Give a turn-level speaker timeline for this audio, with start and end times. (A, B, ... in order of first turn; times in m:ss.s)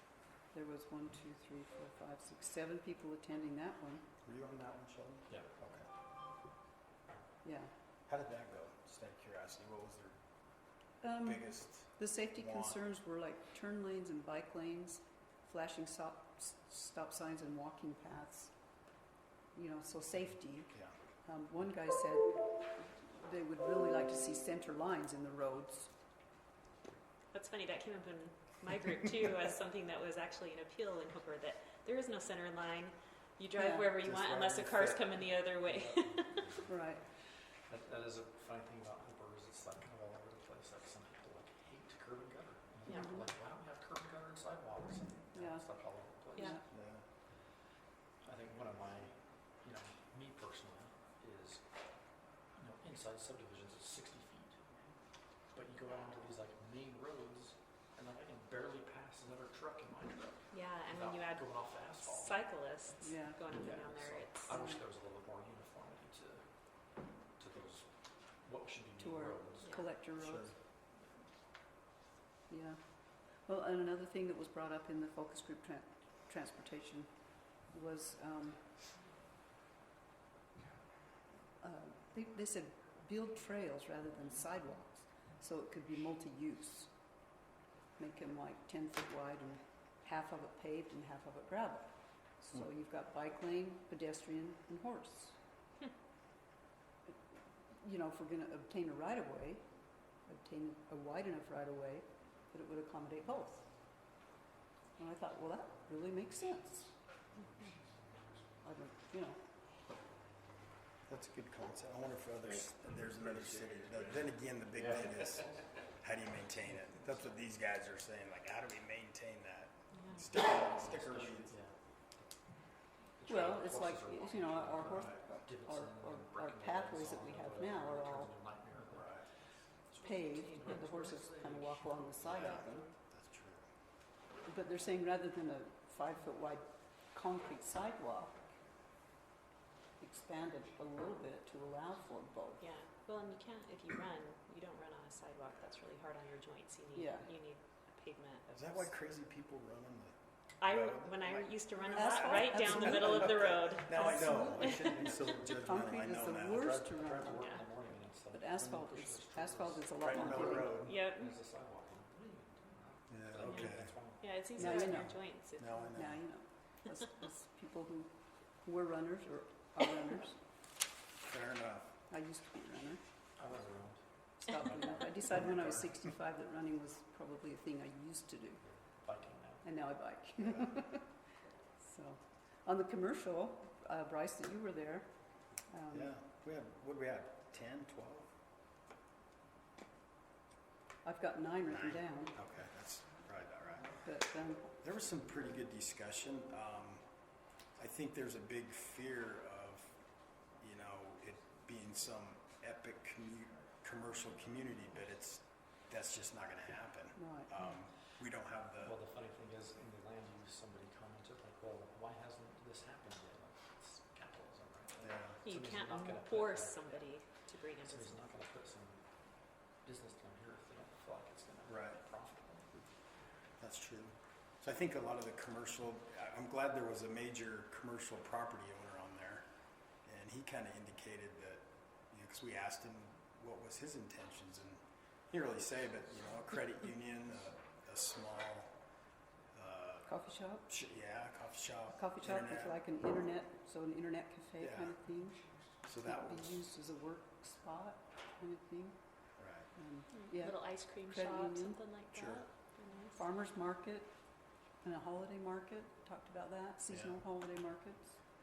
0:00.5-0:04.0 A
0:04.2-0:05.9 B
0:07.4-0:07.7 A
0:08.1-0:10.2 B
0:11.0-0:18.6 A
0:11.2-0:12.8 B
0:19.5-0:25.9 A
0:27.3-0:36.6 C
0:33.6-0:33.9 A
0:34.0-0:35.2 B
0:35.8-0:36.7 D
0:36.6-0:37.0 A
0:37.6-0:46.6 D
0:42.9-0:43.2 C
0:42.9-0:43.2 A
0:45.3-0:45.6 A
0:46.3-0:46.6 A
0:46.7-0:47.1 B
0:48.2-0:54.6 D
0:55.4-1:02.5 D
1:00.5-1:04.6 C
1:03.0-1:03.4 A
1:03.5-1:09.8 D
1:04.5-1:04.8 A
1:09.0-1:10.6 A
1:10.2-1:10.5 B
1:12.5-1:18.8 A
1:21.6-1:26.9 A
1:28.0-1:35.4 A
1:37.8-1:43.7 A
1:45.0-1:46.9 A
1:48.6-1:49.4 A
1:51.1-2:01.6 B
1:59.9-2:00.3 C
2:00.6-2:02.4 D
2:03.1-2:09.2 D
2:03.2-2:08.3 A
2:04.9-2:05.2 B
2:08.9-2:09.3 B
2:09.9-2:12.6 D
2:10.0-2:12.9 A
2:12.2-2:13.6 B
2:12.3-2:12.7 C
2:14.4-2:18.5 A
2:20.0-2:22.6 A
2:22.6-2:28.9 C
2:26.9-2:27.3 A
2:28.5-2:31.6 B
2:30.6-2:35.1 C
2:31.8-2:37.5 A
2:32.6-2:36.8 B
2:34.3-2:35.5 D
2:36.6-2:44.4 D
2:37.3-2:37.6 C
2:38.3-2:40.9 A
2:40.0-2:41.0 B
2:40.7-2:41.3 C
2:43.1-2:44.0 B
2:43.4-2:45.8 C
2:44.5-2:46.2 B
2:44.6-2:45.2 A
2:45.8-2:50.4 A
2:51.2-2:51.9 B
2:52.1-2:53.0 A
2:53.4-2:54.0 D
2:54.4-2:58.6 A
2:55.3-2:55.9 B
2:58.6-2:59.7 D
2:59.6-3:01.1 A
3:01.8-3:06.1 A
3:05.9-3:08.3 B
3:11.0-3:12.4 A
3:11.7-3:14.1 B
3:14.0-3:14.7 A
3:14.8-3:17.1 B
3:17.7-3:20.0 B
3:20.6-3:29.0 B
3:27.1-3:27.5 A
3:28.8-3:37.3 D
3:35.0-3:35.4 B
3:35.4-3:38.3 C
3:37.8-3:42.7 D
3:41.6-3:42.0 B
3:43.6-3:49.5 B
3:50.0-3:58.7 B
3:59.5-4:02.8 B
4:00.0-4:00.7 A
4:01.9-4:05.4 A
4:04.6-4:05.0 B
4:05.8-4:06.6 B
4:06.0-4:09.0 A
4:09.4-4:09.7 B
4:09.7-4:11.8 A
4:10.1-4:13.2 C
4:12.1-4:12.5 B
4:13.1-4:14.2 A
4:14.8-4:18.3 A
4:16.9-4:17.2 B